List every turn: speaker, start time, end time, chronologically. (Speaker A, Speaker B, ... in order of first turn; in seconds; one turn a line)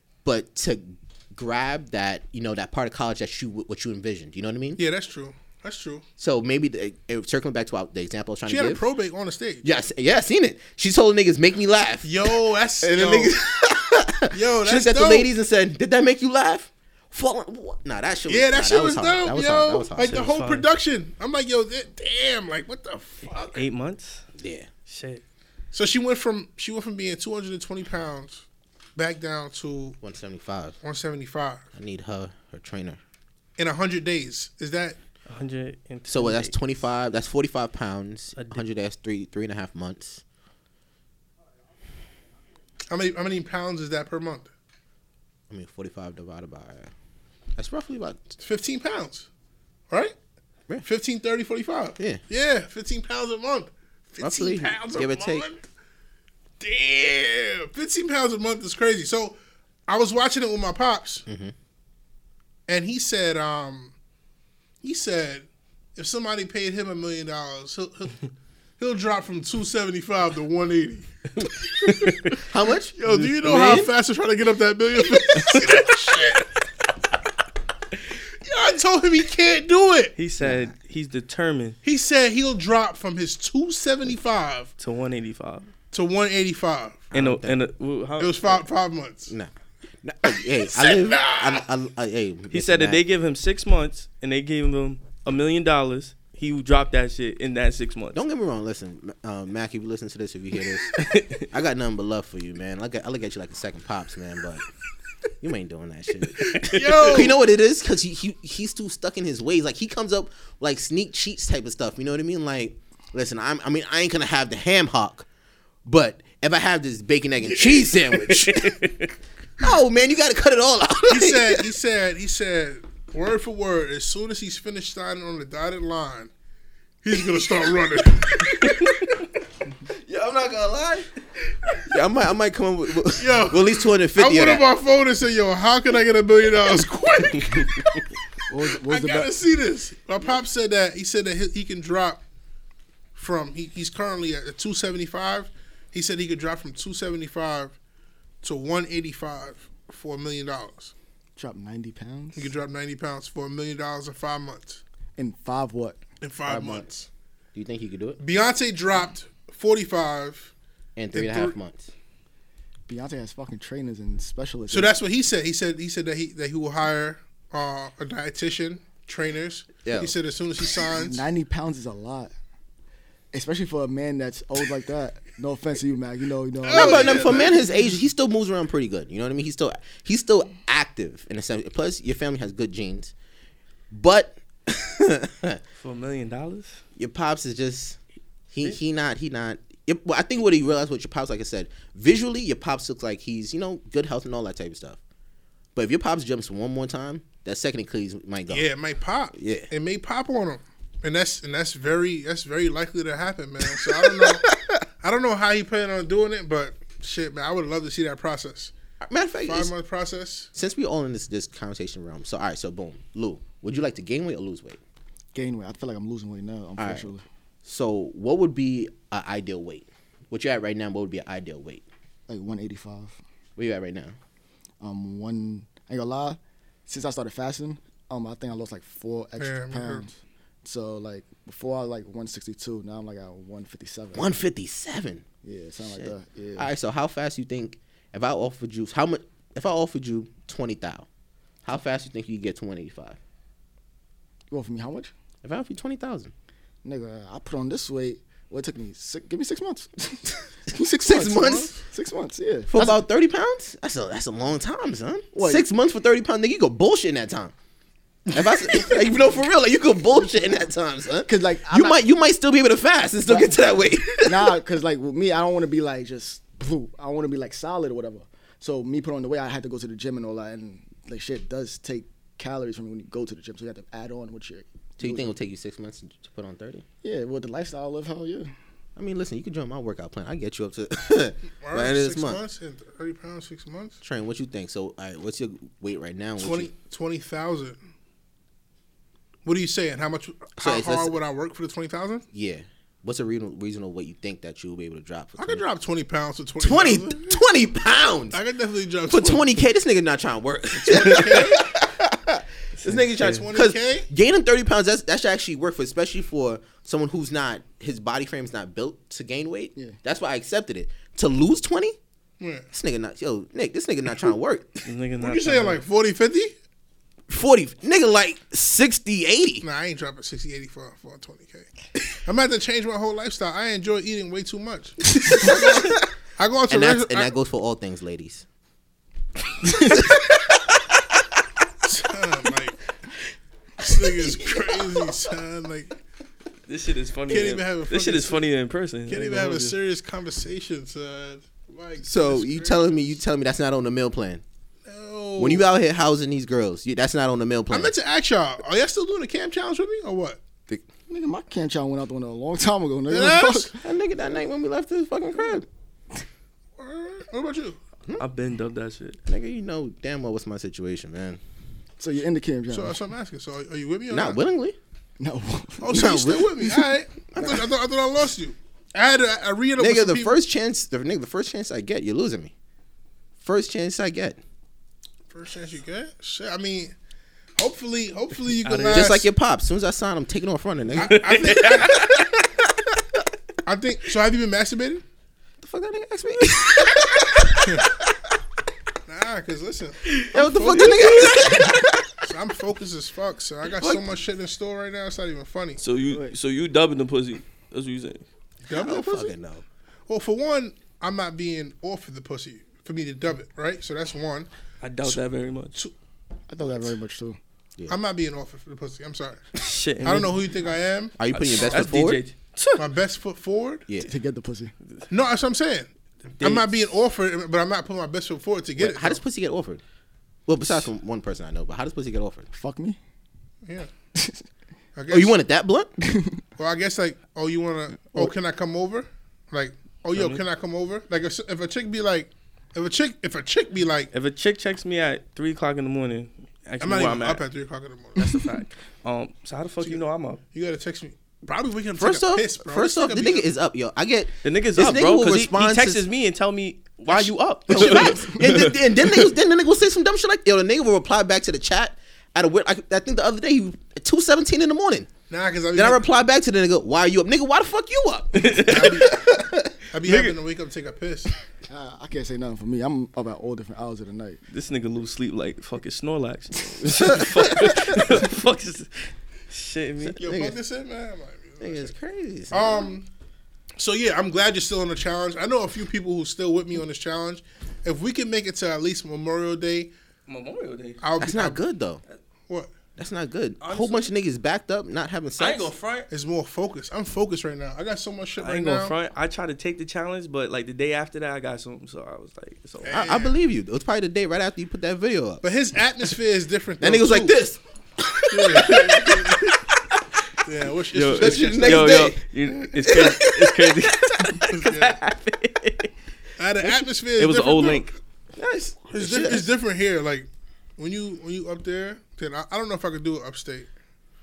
Speaker A: 0.2-4.8
Speaker B: 4.8-6.0
Speaker A: 6.2-8.8
Speaker B: 8.4-9.6
Speaker A: 9.6-20.2
Speaker B: 12.0-13.4
Speaker B: 14.3-15.3
Speaker B: 18.3-23.6
Speaker C: 20.0-20.7
Speaker C: 23.2-24.2
Speaker A: 24.4-24.7
Speaker C: 24.9-25.2
Speaker B: 25.7-28.4
Speaker B: 28.9-30.0
Speaker A: 30.0-30.8
Speaker B: 30.8-31.6
Speaker A: 31.7-33.0
Speaker B: 33.6-35.0
Speaker C: 35.3-36.6
Speaker A: 36.1-40.2
Speaker C: 38.4-38.6
Speaker B: 42.9-44.5
Speaker A: 45.5-46.9
Speaker A: 47.6-48.4
Speaker B: 48.4-49.3
Speaker B: 49.9-50.1
Speaker B: 50.8-55.6
Speaker A: 54.2-55.5
Speaker B: 56.6-59.4
Speaker B: 59.9-61.2
Speaker A: 61.3-61.5
Speaker B: 62.7-63.9
Speaker B: 64.8-68.3
Speaker B: 68.8-71.1
Speaker B: 71.8-72.4
Speaker C: 71.9-72.1
Speaker A: 72.5-73.9
Speaker B: 73.0-76.5
Speaker B: 78.4-80.1
Speaker C: 80.2-81.8
Speaker A: 80.4-80.7
Speaker B: 81.8-84.7
Speaker C: 84.8-85.7
Speaker B: 85.9-87.1
Speaker A: 87.1-87.6
Speaker C: 87.1-88.6
Speaker B: 88.2-89.3
Speaker A: 90.0-93.0
Speaker B: 90.8-91.6
Speaker C: 92.5-98.2
Speaker A: 98.1-101.0
Speaker C: 101.0-101.4
Speaker A: 101.5-104.6
Speaker A: 105.4-115.2
Speaker B: 106.5-107.4
Speaker C: 106.7-107.2
Speaker A: 115.8-118.8
Speaker B: 117.4-117.9
Speaker C: 118.4-119.1
Speaker A: 119.6-121.7
Speaker B: 121.1-126.3
Speaker B: 127.0-128.9
Speaker A: 130.0-131.1
Speaker A: 131.8-134.7
Speaker B: 133.2-138.0
Speaker D: 138.5-139.3
Speaker B: 138.8-142.2
Speaker B: 143.1-147.7
Speaker B: 148.4-150.9
Speaker D: 151.4-152.5
Speaker B: 152.3-154.8
Speaker D: 155.2-156.0
Speaker B: 156.2-156.9
Speaker A: 156.4-158.2
Speaker B: 158.2-160.5
Speaker A: 160.9-161.9
Speaker B: 161.1-161.6
Speaker D: 162.9-164.9
Speaker B: 164.7-171.2
Speaker A: 169.8-170.1
Speaker D: 170.9-172.3
Speaker D: 173.3-177.5
Speaker B: 176.6-177.6
Speaker A: 176.7-183.1
Speaker A: 183.9-185.6
Speaker C: 185.8-186.8
Speaker A: 186.9-188.0
Speaker A: 188.5-195.0
Speaker A: 195.7-198.7
Speaker B: 198.5-204.4
Speaker A: 199.3-199.7
Speaker A: 203.7-204.8
Speaker B: 205.0-208.7
Speaker A: 209.0-209.7
Speaker B: 209.4-210.5
Speaker A: 210.5-214.8
Speaker D: 215.3-217.2
Speaker A: 216.8-217.1
Speaker A: 217.6-221.8
Speaker D: 222.3-223.2
Speaker A: 223.6-224.2
Speaker D: 224.8-234.3
Speaker B: 229.4-230.1
Speaker A: 234.1-235.2
Speaker D: 235.4-236.7
Speaker A: 235.9-241.1
Speaker A: 241.6-243.2
Speaker D: 244.5-245.1
Speaker A: 245.4-246.3
Speaker D: 246.8-253.0
Speaker A: 251.0-251.7
Speaker A: 252.7-257.5
Speaker D: 255.3-255.6
Speaker A: 258.3-264.5
Speaker D: 261.2-262.0
Speaker D: 263.3-263.6
Speaker D: 264.2-275.3
Speaker A: 275.0-276.8
Speaker D: 277.0-278.5
Speaker A: 278.9-282.4
Speaker B: 281.6-284.0
Speaker A: 284.0-286.7
Speaker B: 286.4-287.8
Speaker B: 289.4-292.2
Speaker A: 290.6-291.1
Speaker A: 292.3-295.6
Speaker B: 295.4-297.4
Speaker A: 296.6-298.4
Speaker B: 298.3-299.6
Speaker A: 299.1-312.0
Speaker B: 300.8-301.6
Speaker B: 303.2-304.1
Speaker C: 303.2-303.4
Speaker B: 312.4-312.7
Speaker A: 312.7-314.8
Speaker C: 314.9-315.8
Speaker B: 315.2-316.5
Speaker A: 317.3-319.6
Speaker B: 319.6-321.7
Speaker B: 322.2-327.3
Speaker A: 325.3-326.0
Speaker A: 326.7-328.4
Speaker B: 331.8-332.8
Speaker B: 333.8-335.9
Speaker C: 336.7-339.8
Speaker B: 337.3-338.4
Speaker B: 339.1-343.1
Speaker A: 342.0-344.4
Speaker B: 344.9-345.7
Speaker A: 345.4-347.9
Speaker B: 347.7-350.4
Speaker D: 351.1-353.7
Speaker B: 353.1-353.7
Speaker A: 353.7-355.6
Speaker B: 356.8-357.8
Speaker C: 358.2-359.2
Speaker A: 359.3-361.4
Speaker D: 362.0-363.0
Speaker B: 362.7-364.4
Speaker A: 364.1-364.8
Speaker D: 365.2-366.1
Speaker B: 365.8-370.4
Speaker A: 365.9-366.6
Speaker A: 367.3-367.6
Speaker A: 369.8-372.5
Speaker A: 373.4-374.4
Speaker B: 375.3-376.9
Speaker B: 377.6-379.3
Speaker C: 378.6-379.1
Speaker A: 378.9-382.2
Speaker B: 380.9-382.2
Speaker C: 381.0-382.1
Speaker B: 383.6-385.0
Speaker A: 385.6-387.6
Speaker B: 387.6-387.9
Speaker B: 389.1-391.5
Speaker A: 390.3-392.1
Speaker C: 390.8-391.5
Speaker B: 392.2-395.8
Speaker C: 395.8-398.2
Speaker B: 398.7-399.3
Speaker A: 398.7-399.6
Speaker B: 400.1-404.5
Speaker C: 404.8-405.7
Speaker D: 406.5-407.4
Speaker B: 406.6-406.9
Speaker B: 407.9-409.4
Speaker C: 409.6-410.4
Speaker B: 410.0-411.8
Speaker A: 411.2-412.2
Speaker C: 411.3-412.8
Speaker B: 412.8-413.9
Speaker D: 414.0-414.7
Speaker B: 415.1-419.2
Speaker A: 418.8-419.8
Speaker A: 420.5-422.5
Speaker D: 422.5-423.0
Speaker D: 424.2-424.4
Speaker B: 424.9-425.3
Speaker A: 425.1-425.9
Speaker D: 426.0-426.4
Speaker B: 426.6-434.1
Speaker C: 430.1-430.4
Speaker C: 434.1-437.4
Speaker B: 436.8-438.4
Speaker C: 438.2-440.4
Speaker B: 439.8-443.5
Speaker A: 441.9-446.0
Speaker C: 444.4-449.3
Speaker A: 447.1-455.1
Speaker B: 455.3-456.0
Speaker A: 455.7-459.7
Speaker C: 458.3-459.1
Speaker B: 458.6-459.2
Speaker B: 459.9-461.3
Speaker C: 460.0-460.3
Speaker D: 461.7-464.4
Speaker C: 464.5-470.2
Speaker A: 467.0-467.8
Speaker A: 470.2-470.6
Speaker B: 470.2-471.9
Speaker A: 471.6-472.9
Speaker B: 472.5-473.1
Speaker B: 473.8-479.9
Speaker C: 480.3-481.0
Speaker B: 481.0-481.6
Speaker A: 481.2-482.0
Speaker A: 483.0-485.7
Speaker C: 483.6-484.1
Speaker C: 485.4-486.1
Speaker B: 486.1-488.9
Speaker C: 488.4-493.1
Speaker B: 492.8-493.3
Speaker A: 492.9-495.4
Speaker B: 495.4-497.4
Speaker A: 496.8-499.6
Speaker B: 498.3-499.5
Speaker B: 500.4-502.1
Speaker C: 500.9-505.9
Speaker A: 501.2-502.2
Speaker A: 502.8-504.2
Speaker B: 504.5-505.0
Speaker B: 506.4-507.9
Speaker C: 507.2-507.9
Speaker A: 508.4-509.5
Speaker B: 508.9-513.7